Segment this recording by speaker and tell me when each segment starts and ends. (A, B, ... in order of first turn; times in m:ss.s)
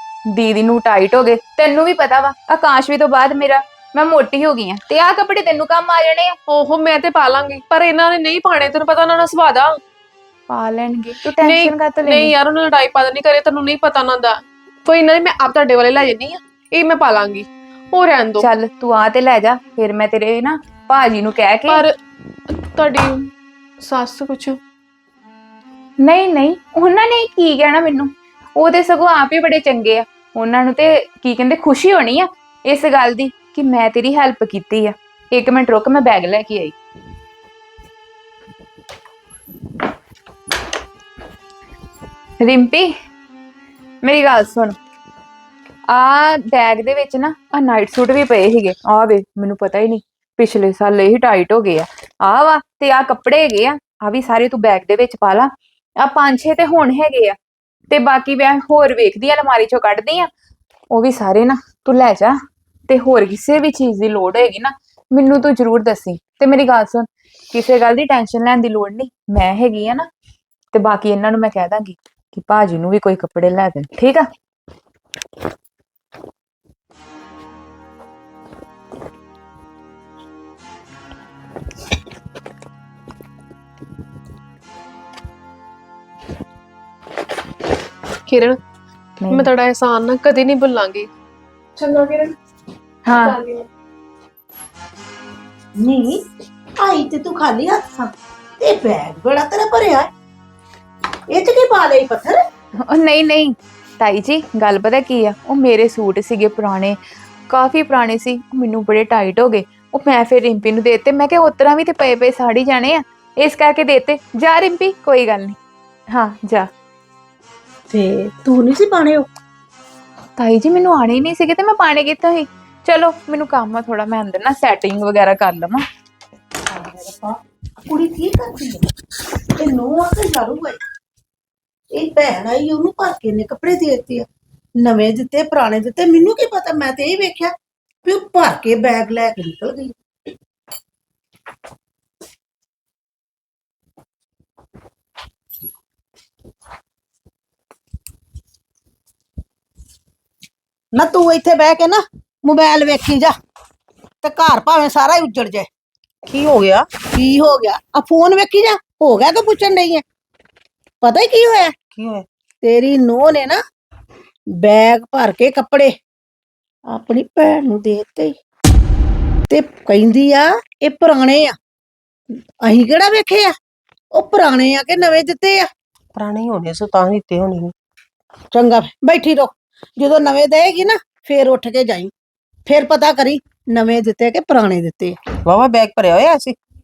0:00.3-0:06.4 A
0:06.5-0:09.7 B
0:10.5-0:12.3 A
0:11.4-0:18.5 B
0:18.4-0:21.8 A
0:21.7-0:21.9 B
0:22.7-0:23.3 B
0:23.8-0:24.6 B
0:26.0-0:36.8 A
0:42.4-0:42.9 A
0:44.0-0:44.8 A
0:45.9-0:57.4 A
0:57.9-1:00.3 A
1:00.9-1:10.1 A
1:10.7-1:14.3 A
1:28.3-1:28.6 B
1:29.2-1:29.5 A
1:29.3-1:31.1 B
1:31.8-1:32.3 B
1:33.0-1:33.4 A
1:33.2-1:33.7 B
1:35.8-1:36.2 C
1:36.8-1:40.1 C
1:41.3-1:42.4 C
1:42.8-1:47.0 A
1:47.5-1:55.6 A
1:56.1-1:56.7 A
1:57.9-1:59.3 C
2:00.4-2:05.8 A
2:06.7-2:08.9 C
2:09.6-2:10.8 C
2:11.9-2:14.3 C
2:14.8-2:20.0 C
2:30.9-2:33.3 C
2:34.2-2:35.7 C
2:36.2-2:36.9 D
2:37.1-2:40.0 C
2:41.0-2:41.7 C
2:41.9-2:42.2 D
2:42.6-2:43.6 C
2:44.5-2:45.9 C
2:46.9-2:48.4 C
2:49.5-2:51.6 C
2:52.6-2:53.5 C
2:54.1-2:55.7 C
2:56.1-2:57.7 D
2:58.5-3:02.1 C
3:02.6-3:05.2 C
3:05.4-3:06.6 D